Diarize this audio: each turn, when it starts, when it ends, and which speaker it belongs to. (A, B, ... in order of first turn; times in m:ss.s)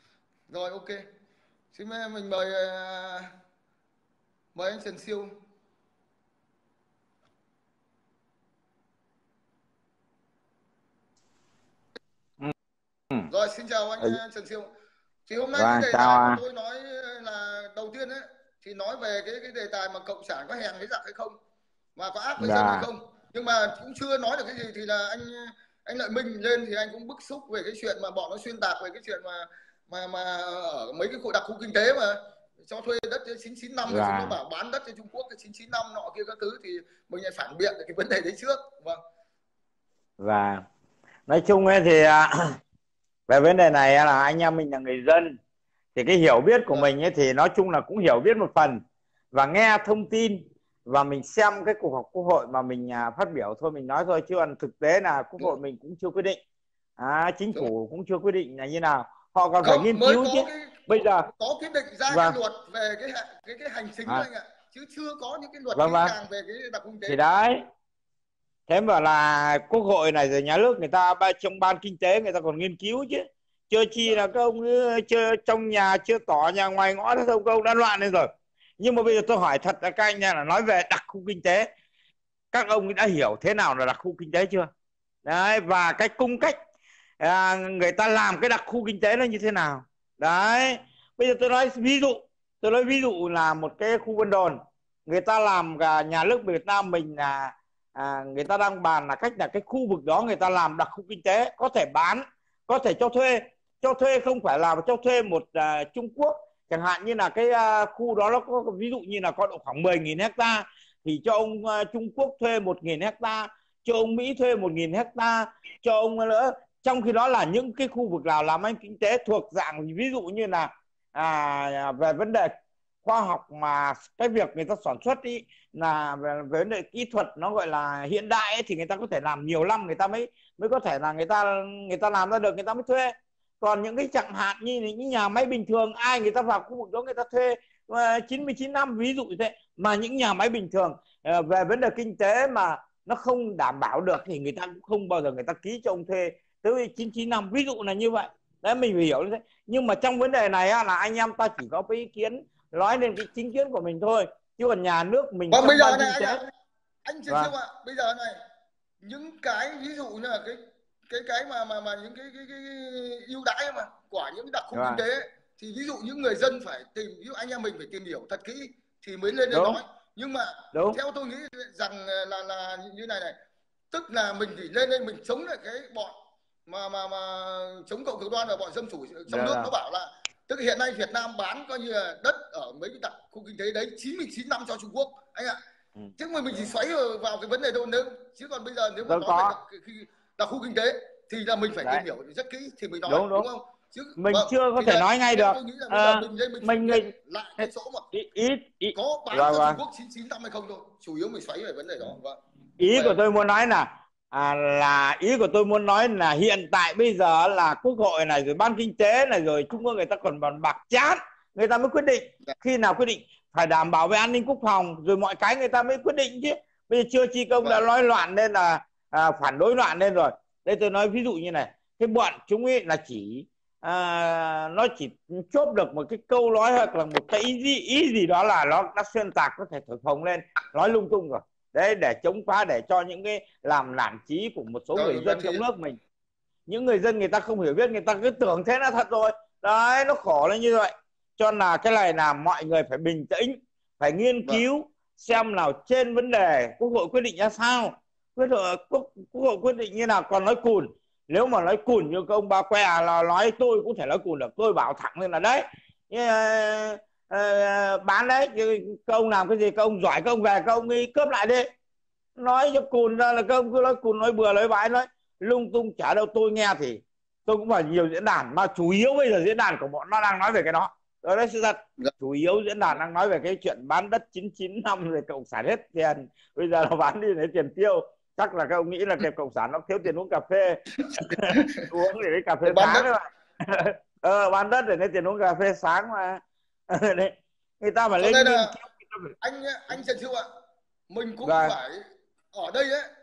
0:00.5-0:01.0 A
0:01.7-0:03.3 A
0:04.6-0:05.3 A
0:13.3-0:14.7 A
0:15.3-0:21.4 A
0:15.6-0:16.4 B
0:22.0-0:39.0 A
0:22.4-0:22.9 B
0:33.9-0:34.4 B
0:40.2-0:40.6 B
0:41.3-0:42.3 B
0:43.3-0:45.4 B
0:46.0-0:48.8 B
0:49.3-0:56.4 B
0:57.0-1:01.3 B
0:59.6-1:07.2 A
1:02.1-1:02.4 B
1:05.8-1:06.1 B
1:07.1-1:07.6 B
1:08.7-1:18.3 B
1:14.0-1:14.3 A
1:18.8-1:21.7 B
1:22.5-1:24.7 B
1:25.2-1:26.6 B
1:27.2-2:02.5 B
2:03.0-2:36.4 B
2:35.5-2:36.5 A
2:37.0-2:38.4 A
2:39.0-2:53.4 A
2:44.7-2:45.0 B
2:49.5-2:49.8 B
2:50.7-2:51.0 B
2:53.9-2:56.1 A
2:56.7-3:05.6 A
2:59.3-2:59.7 B
3:06.2-3:18.1 A
3:09.1-3:09.5 B
3:13.1-3:13.5 B
3:14.2-3:17.1 B
3:17.6-3:19.8 B
3:18.9-3:22.4 A
3:22.8-3:56.0 B
3:22.9-3:23.2 A
3:37.6-3:37.8 A
3:54.9-3:55.6 A
3:56.7-4:21.7 B
4:22.4-4:49.3 B
4:41.0-4:41.9 A
4:42.6-4:43.1 A
4:48.2-4:48.7 A
4:49.4-4:50.4 A
4:51.1-4:53.1 A
4:51.4-4:51.8 B